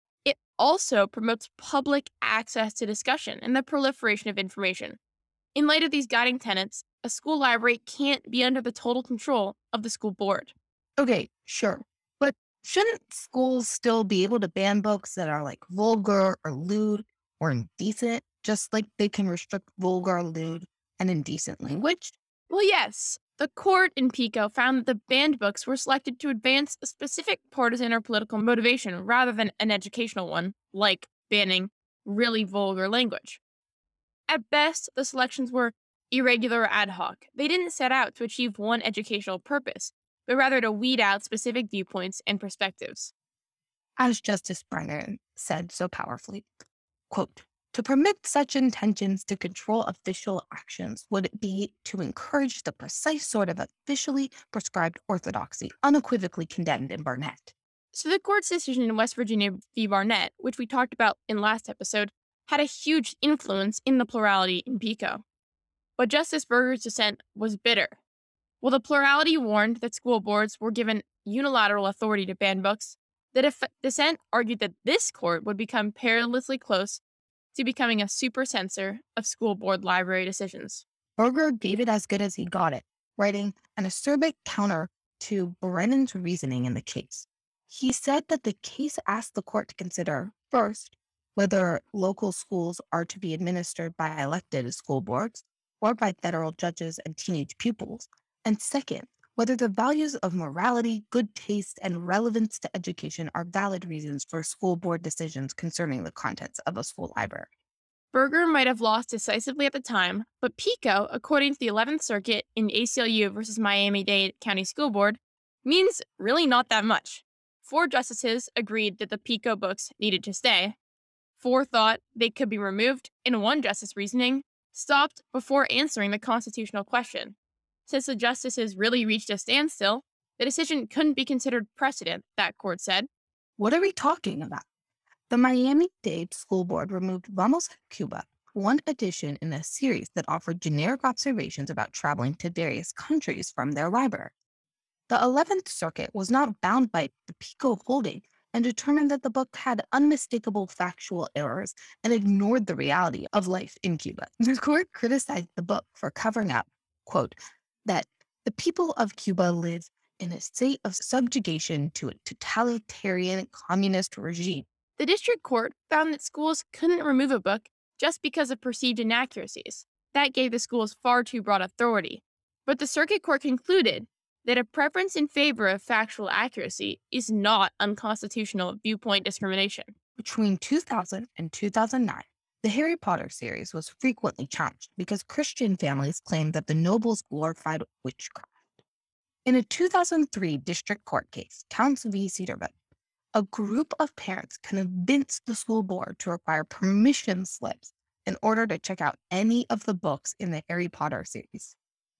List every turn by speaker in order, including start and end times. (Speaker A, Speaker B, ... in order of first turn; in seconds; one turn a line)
Speaker A: 0.2-5.0
Speaker A: 5.5-10.5
Speaker B: 11.0-22.1
Speaker A: 22.5-33.4
Speaker A: 34.3-43.1
Speaker B: 44.0-46.5
Speaker B: 47.1-57.5
Speaker A: 57.9-65.2
Speaker A: 66.0-68.0
Speaker A: 68.6-77.0
Speaker A: 77.5-80.8
Speaker B: 81.2-107.5
Speaker A: 108.1-120.7
Speaker A: 121.4-127.3
Speaker A: 127.9-133.1
Speaker B: 133.6-134.6
Speaker B: 135.3-144.3
Speaker B: 145.1-164.7
Speaker A: 165.0-179.9
Speaker B: 180.2-188.5
Speaker B: 189.4-192.7
Speaker B: 193.3-201.7